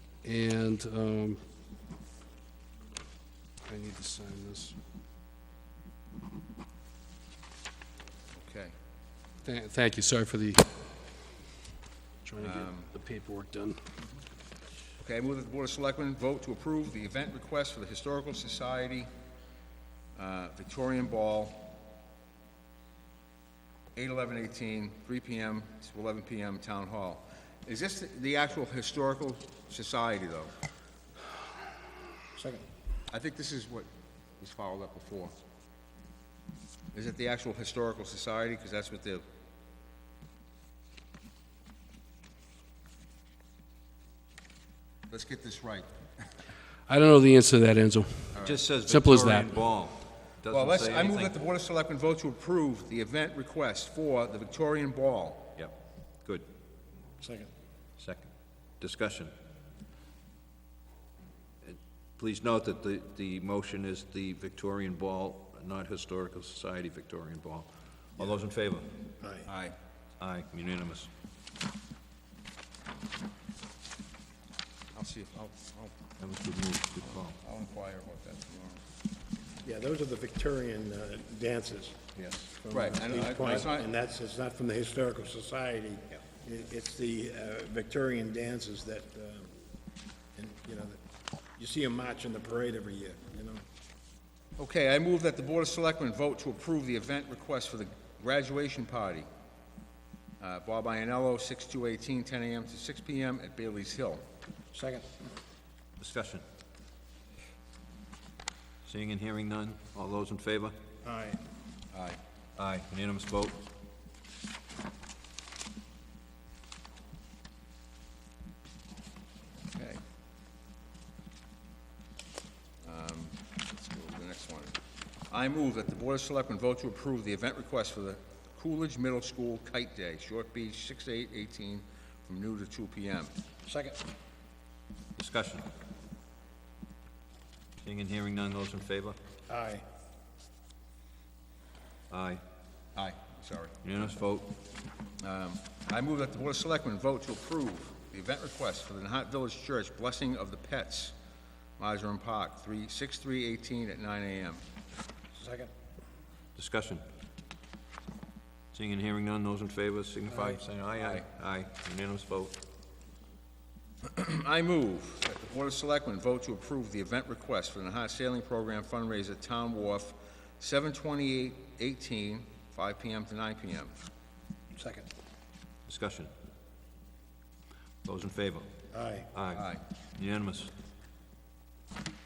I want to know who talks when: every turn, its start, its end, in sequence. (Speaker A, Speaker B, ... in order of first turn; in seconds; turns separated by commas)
Speaker A: 0.2-1.4, Speaker A: 3.7-4.8, Speaker B: 8.3-8.7, Speaker A: 9.4-10.6, Speaker A: 12.2-13.8, Speaker B: 12.4-12.9, Speaker B: 15.0-19.1, Speaker B: 20.2-21.7, Speaker B: 23.9-30.5, Speaker C: 32.4-32.7, Speaker B: 33.1-33.9, Speaker B: 34.4-35.3, Speaker B: 36.9-39.2, Speaker B: 45.1-46.3, Speaker A: 46.9-48.4, Speaker B: 48.3-48.6, Speaker D: 48.4-51.4, Speaker A: 48.9-49.5, Speaker B: 50.5-55.5, Speaker C: 57.2-57.5, Speaker D: 58.0-59.3, Speaker D: 61.6-68.9, Speaker C: 69.2-69.5, Speaker B: 69.5-69.8, Speaker D: 70.2-71.1, Speaker B: 74.9-76.0, Speaker D: 76.2-77.4, Speaker B: 77.0-78.8, Speaker C: 79.6-82.0, Speaker D: 82.2-82.5, Speaker C: 82.5-89.5, Speaker B: 82.7-83.9, Speaker C: 90.3-91.0, Speaker C: 91.6-93.6, Speaker B: 94.6-99.3, Speaker B: 100.4-104.2, Speaker C: 104.7-105.1, Speaker D: 106.0-106.4, Speaker D: 108.8-110.8, Speaker C: 111.0-111.4, Speaker B: 111.9-112.2, Speaker D: 112.6-113.7, Speaker B: 119.7-120.0, Speaker B: 122.8-124.8, Speaker B: 125.3-133.3, Speaker C: 133.7-134.0, Speaker D: 135.2-135.7, Speaker D: 137.8-139.2, Speaker C: 139.5-139.8, Speaker D: 142.1-142.4, Speaker B: 142.9-144.2, Speaker D: 143.8-144.6, Speaker B: 145.2-151.2, Speaker B: 151.8-154.6, Speaker C: 155.3-155.7, Speaker D: 156.6-157.0, Speaker D: 158.7-162.6, Speaker C: 160.3-160.6, Speaker B: 160.9-161.2, Speaker B: 164.0-173.9, Speaker C: 174.7-175.1, Speaker D: 175.9-176.3, Speaker D: 178.0-178.7, Speaker C: 178.9-179.3, Speaker D: 179.3-180.7, Speaker B: 179.5-179.8